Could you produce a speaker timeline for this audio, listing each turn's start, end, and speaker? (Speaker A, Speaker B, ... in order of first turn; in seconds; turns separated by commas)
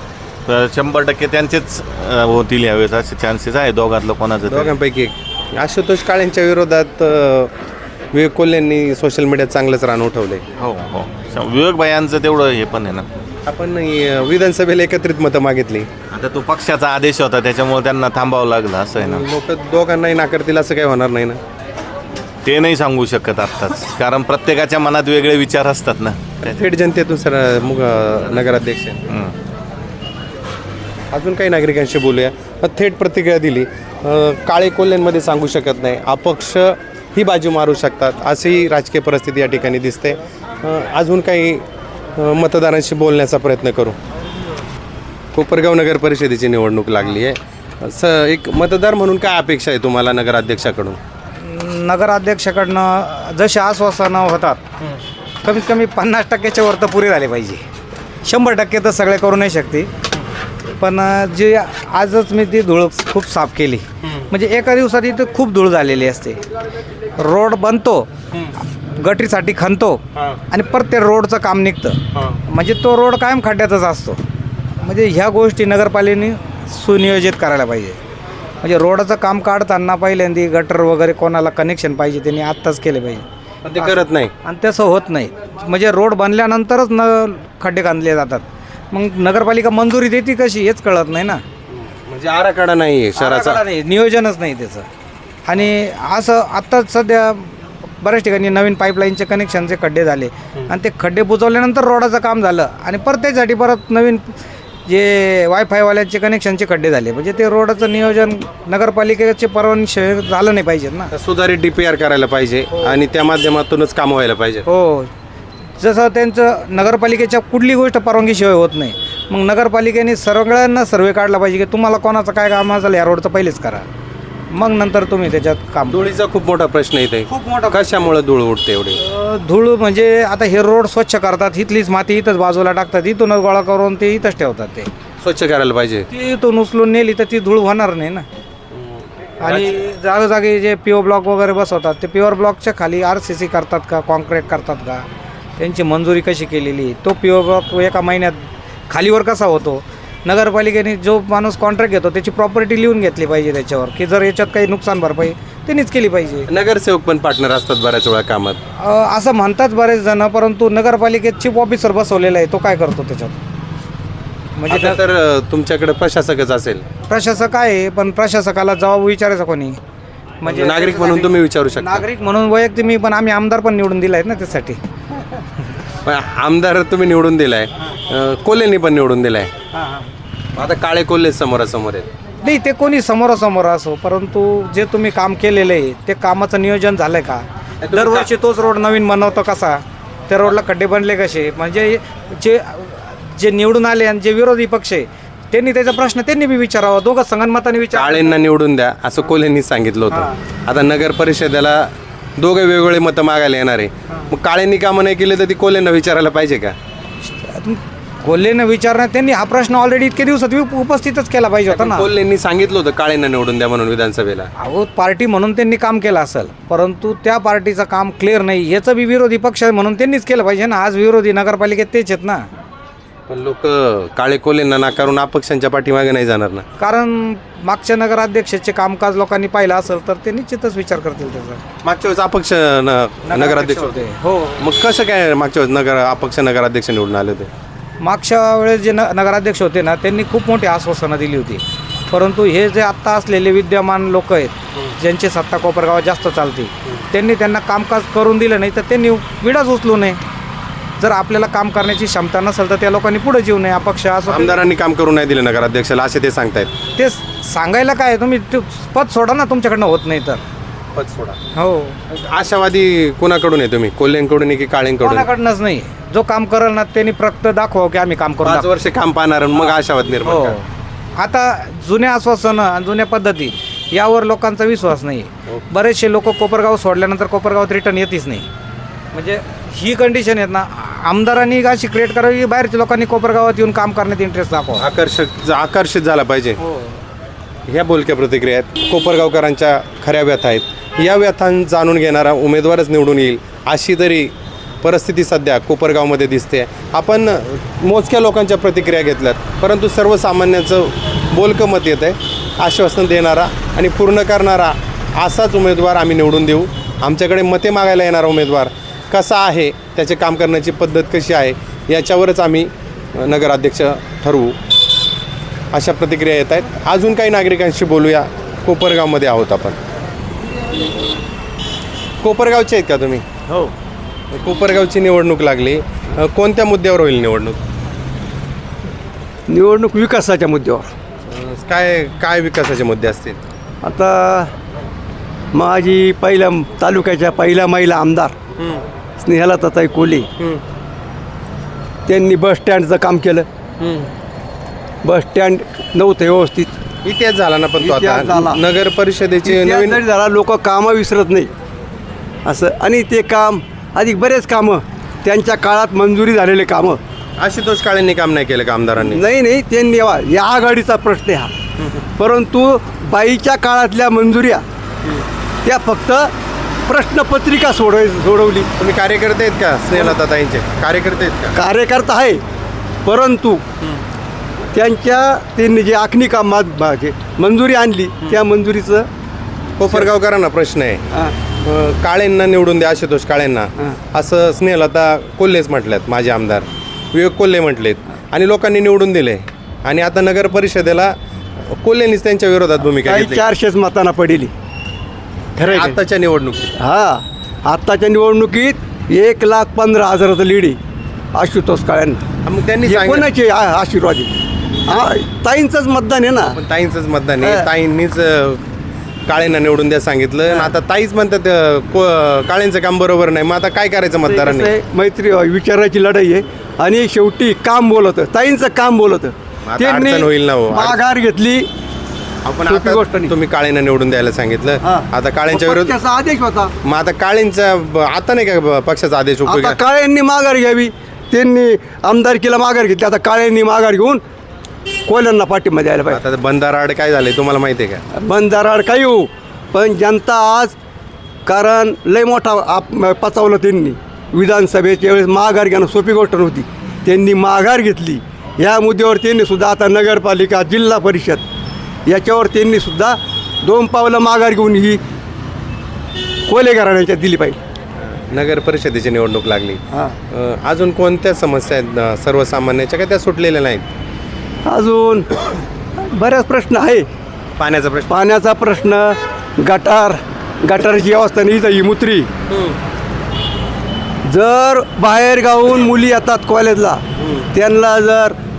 Speaker A: 0.5-4.8, Speaker B: 4.5-7.5, Speaker B: 8.1-10.4, Speaker A: 10.6-13.1, Speaker B: 13.5-15.9, Speaker A: 16.1-19.3, Speaker B: 19.0-21.4, Speaker A: 22.4-26.6, Speaker B: 26.4-29.0, Speaker A: 29.1-29.3, Speaker B: 31.1-41.6, Speaker B: 42.2-44.0, Speaker B: 45.4-51.0, Speaker C: 51.4-54.6, Speaker C: 55.4-57.6, Speaker C: 58.2-59.9, Speaker C: 60.7-66.4, Speaker C: 67.2-68.1, Speaker C: 69.0-74.2, Speaker C: 74.8-78.0, Speaker C: 78.6-83.2, Speaker B: 83.6-84.3, Speaker C: 83.8-91.4, Speaker B: 91.7-93.6, Speaker C: 93.2-94.9, Speaker C: 95.5-104.4, Speaker C: 104.9-111.1, Speaker B: 111.1-114.7, Speaker C: 114.7-115.1, Speaker C: 115.8-123.9, Speaker C: 124.5-126.1, Speaker B: 125.9-129.0, Speaker C: 127.3-128.1, Speaker C: 129.0-134.9, Speaker B: 135.2-136.1, Speaker C: 136.1-138.3, Speaker C: 139.4-145.1, Speaker C: 145.6-156.5, Speaker B: 156.5-158.6, Speaker C: 158.8-163.4, Speaker C: 164.6-165.0, Speaker B: 164.7-166.8, Speaker C: 167.1-169.8, Speaker C: 170.4-174.8, Speaker B: 170.4-172.1, Speaker B: 176.1-179.5, Speaker C: 179.8-180.0, Speaker B: 180.6-182.1, Speaker C: 182.4-198.4, Speaker B: 187.8-188.3, Speaker B: 197.9-206.8, Speaker C: 207.2-212.1, Speaker B: 211.7-214.5, Speaker C: 214.6-222.5, Speaker B: 223.3-226.7, Speaker C: 226.8-231.6, Speaker B: 231.8-234.0, Speaker C: 233.3-234.6, Speaker B: 234.6-237.5, Speaker C: 238.0-250.2, Speaker C: 251.0-254.6, Speaker B: 254.3-256.7, Speaker C: 256.9-260.4, Speaker B: 261.0-261.4, Speaker C: 261.6-262.0, Speaker B: 262.1-265.3, Speaker C: 265.0-268.7, Speaker B: 268.4-270.6, Speaker C: 270.2-270.6, Speaker C: 271.2-278.5, Speaker C: 279.1-284.9, Speaker B: 284.8-286.6, Speaker C: 286.6-286.9, Speaker B: 287.7-314.6, Speaker B: 315.7-319.8, Speaker B: 322.2-323.2, Speaker B: 324.4-327.6, Speaker D: 329.5-330.9, Speaker B: 331.3-333.4, Speaker D: 333.8-334.5, Speaker D: 335.5-338.3, Speaker B: 338.6-338.8, Speaker D: 339.2-340.3, Speaker D: 342.1-343.5, Speaker B: 343.8-344.1, Speaker D: 345.0-346.7, Speaker B: 347.0-350.0, Speaker D: 347.8-348.6, Speaker D: 349.4-351.5, Speaker D: 352.5-357.0, Speaker B: 357.4-359.2, Speaker D: 359.0-361.5, Speaker D: 362.2-364.6, Speaker D: 365.6-366.3, Speaker D: 366.9-368.7, Speaker B: 368.8-371.6, Speaker D: 371.6-372.4, Speaker D: 373.1-373.6, Speaker D: 374.7-379.1, Speaker B: 379.8-381.0, Speaker B: 381.6-391.1, Speaker B: 391.7-393.4, Speaker D: 393.0-394.5, Speaker D: 395.6-396.0, Speaker B: 395.6-396.7, Speaker D: 396.8-400.8, Speaker D: 401.4-402.2, Speaker B: 402.4-403.3, Speaker D: 402.9-404.3, Speaker D: 404.9-406.6, Speaker B: 406.6-408.6, Speaker B: 409.3-414.7, Speaker D: 410.5-410.7, Speaker D: 414.2-421.7, Speaker B: 419.7-421.0, Speaker B: 422.4-425.9, Speaker D: 422.7-423.3, Speaker D: 424.9-426.7, Speaker B: 426.9-429.8, Speaker D: 429.5-434.2, Speaker D: 435.1-436.2, Speaker B: 436.1-438.0, Speaker D: 438.2-440.8, Speaker D: 441.5-451.4, Speaker D: 452.1-455.0, Speaker D: 456.5-457.6, Speaker B: 458.0-459.8, Speaker B: 460.3-463.9, Speaker D: 464.7-467.1, Speaker B: 467.6-468.1, Speaker D: 468.1-472.3, Speaker B: 472.5-472.8, Speaker D: 474.3-477.0, Speaker B: 477.2-477.5, Speaker D: 477.5-478.4